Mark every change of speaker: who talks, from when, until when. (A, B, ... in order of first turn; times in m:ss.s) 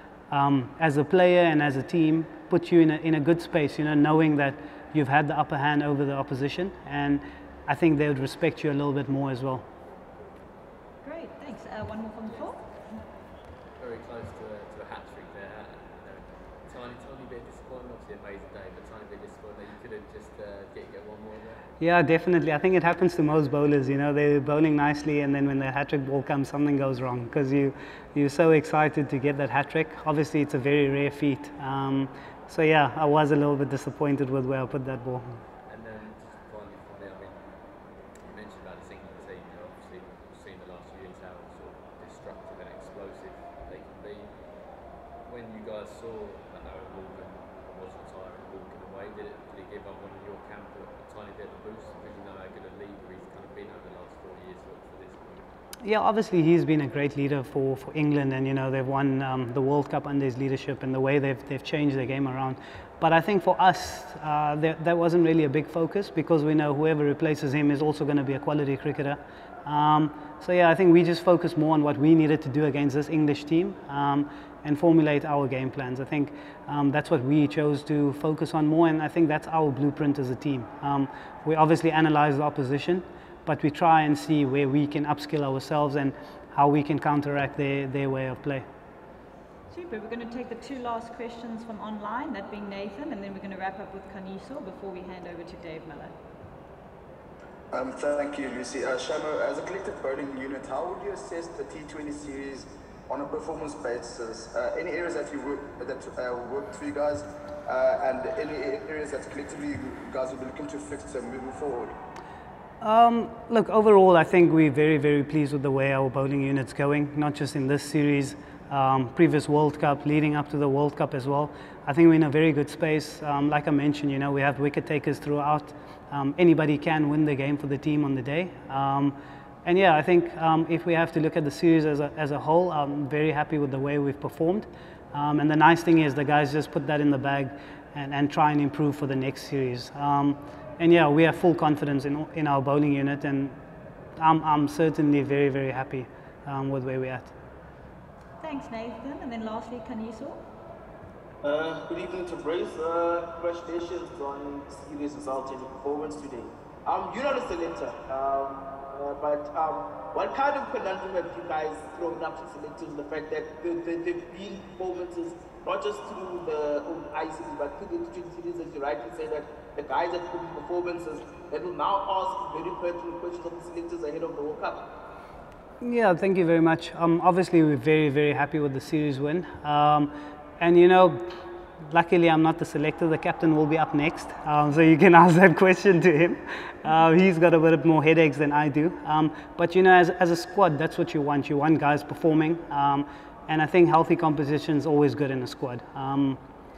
0:00.3-0:09.6 A
0:11.0-0:13.0 B
0:12.2-0:12.8 C
0:13.8-0:21.7 C
0:21.8-0:35.4 A
0:35.7-0:37.4 C
0:38.3-0:44.4 C
0:45.2-0:55.5 C
0:55.8-1:28.6 A
1:29.7-1:36.1 B
1:37.7-1:52.0 D
1:52.8-2:23.6 A
2:24.2-2:27.3 A
2:28.4-2:30.4 B
2:31.4-2:54.9 E
2:55.8-3:01.2 A
3:01.9-3:16.4 A